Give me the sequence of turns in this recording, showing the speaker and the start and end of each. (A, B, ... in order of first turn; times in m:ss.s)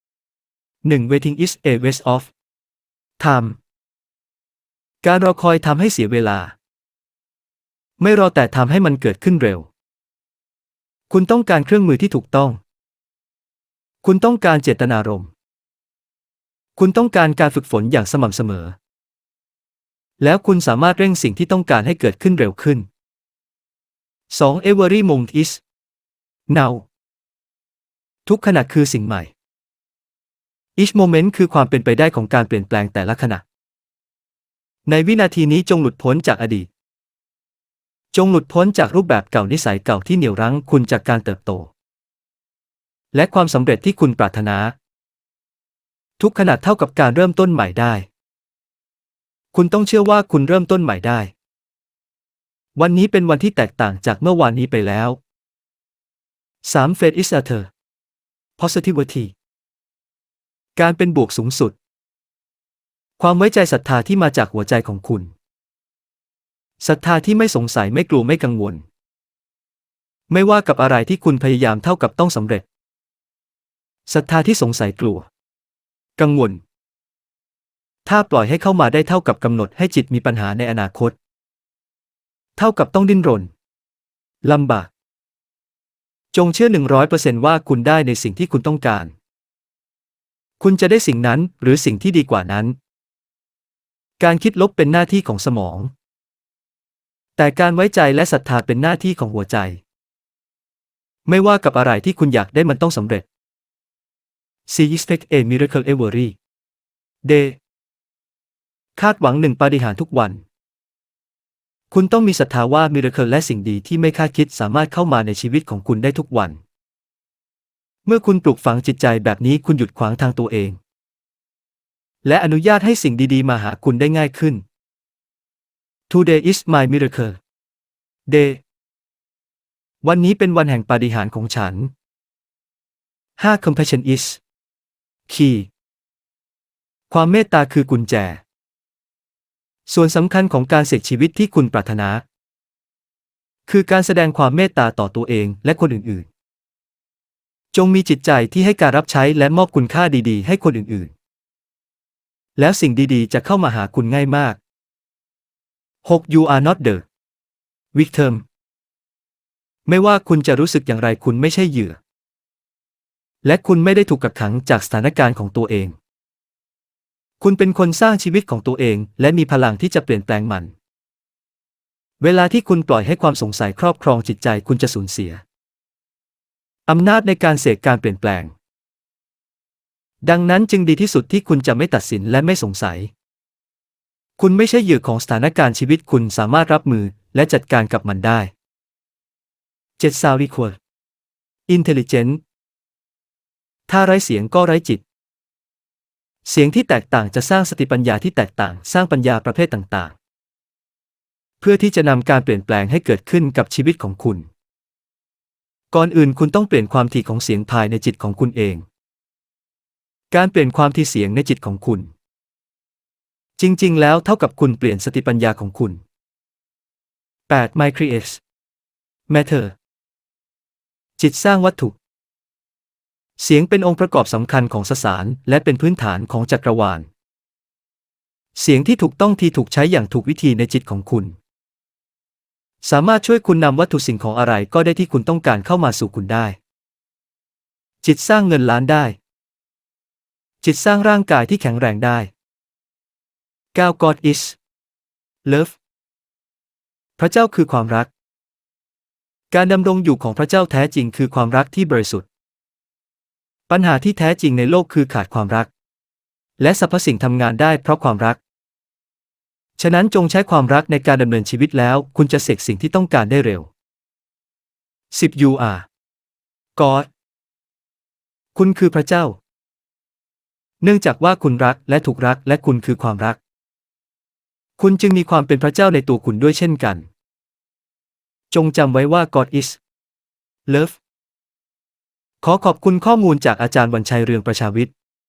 0:00.8-0:02.3 A
0:03.2-0:03.6 A
0:05.0-0:06.6 A
0:08.0-0:09.7 A
0:11.1-0:12.6 A
0:14.0-0:15.3 A
0:16.8-0:18.7 A
0:20.2-0:22.8 A
0:24.3-0:25.6 A
0:26.5-0:26.8 A
0:28.2-0:29.3 A
0:30.8-0:33.4 A
0:34.8-0:36.7 A
0:38.1-0:41.7 A
0:43.1-0:44.7 A
0:46.2-0:48.1 A
0:49.5-0:51.3 A
0:52.8-0:55.2 A
0:56.6-0:57.7 A
0:58.6-0:59.3 A
1:00.8-1:01.8 A
1:03.2-1:05.3 A
1:06.8-1:08.8 A
1:10.3-1:12.6 A
1:14.1-1:15.3 A
1:16.2-1:16.6 A
1:18.0-1:21.2 A
1:22.6-1:23.5 A
1:24.4-1:24.9 A
1:26.3-1:29.1 A
1:30.6-1:32.8 A
1:34.2-1:35.9 A
1:37.4-1:39.8 A
1:41.2-1:43.2 A
1:44.7-1:46.3 A
1:47.2-1:47.6 A
1:49.0-1:50.4 A
1:51.9-1:56.6 A
1:58.0-2:00.8 A
2:02.2-2:04.6 A
2:06.1-2:07.4 A
2:08.3-2:08.6 A
2:10.0-2:11.9 A
2:13.4-2:14.4 A
2:15.3-2:15.7 A
2:17.1-2:18.4 A
2:19.8-2:22.2 A
2:23.7-2:26.3 A
2:27.7-2:31.1 A
2:32.6-2:34.6 A
2:36.0-2:37.0 A
2:37.9-2:38.4 A
2:39.8-2:42.0 A
2:43.4-2:45.9 A
2:47.4-2:50.7 A
2:52.2-2:55.4 A
2:56.9-2:58.5 A
3:00.2-3:03.1 A
3:04.4-3:08.5 A
3:10.0-3:10.8 A
3:11.7-3:12.4 A
3:13.9-3:15.0 A
3:16.4-3:20.1 A
3:21.6-3:24.4 A
3:25.9-3:28.8 A
3:30.3-3:32.1 A
3:33.6-3:36.0 A
3:37.5-3:38.4 A
3:39.3-3:39.7 A
3:41.2-3:42.0 A
3:43.4-3:47.1 A
3:48.5-3:51.3 A
3:52.8-3:56.6 A
3:58.0-3:59.2 A
4:00.6-4:02.3 A
4:03.7-4:04.6 A
4:05.4-4:05.7 A
4:07.2-4:08.1 A
4:09.5-4:12.2 A
4:13.7-4:15.7 A
4:16.6-4:18.4 A
4:19.8-4:23.7 A
4:25.1-4:25.8 A
4:26.8-4:27.1 A
4:28.5-4:29.4 A
4:30.8-4:33.4 A
4:34.8-4:37.1 A
4:38.5-4:39.8 A
4:40.7-4:41.0 A
4:42.4-4:44.9 A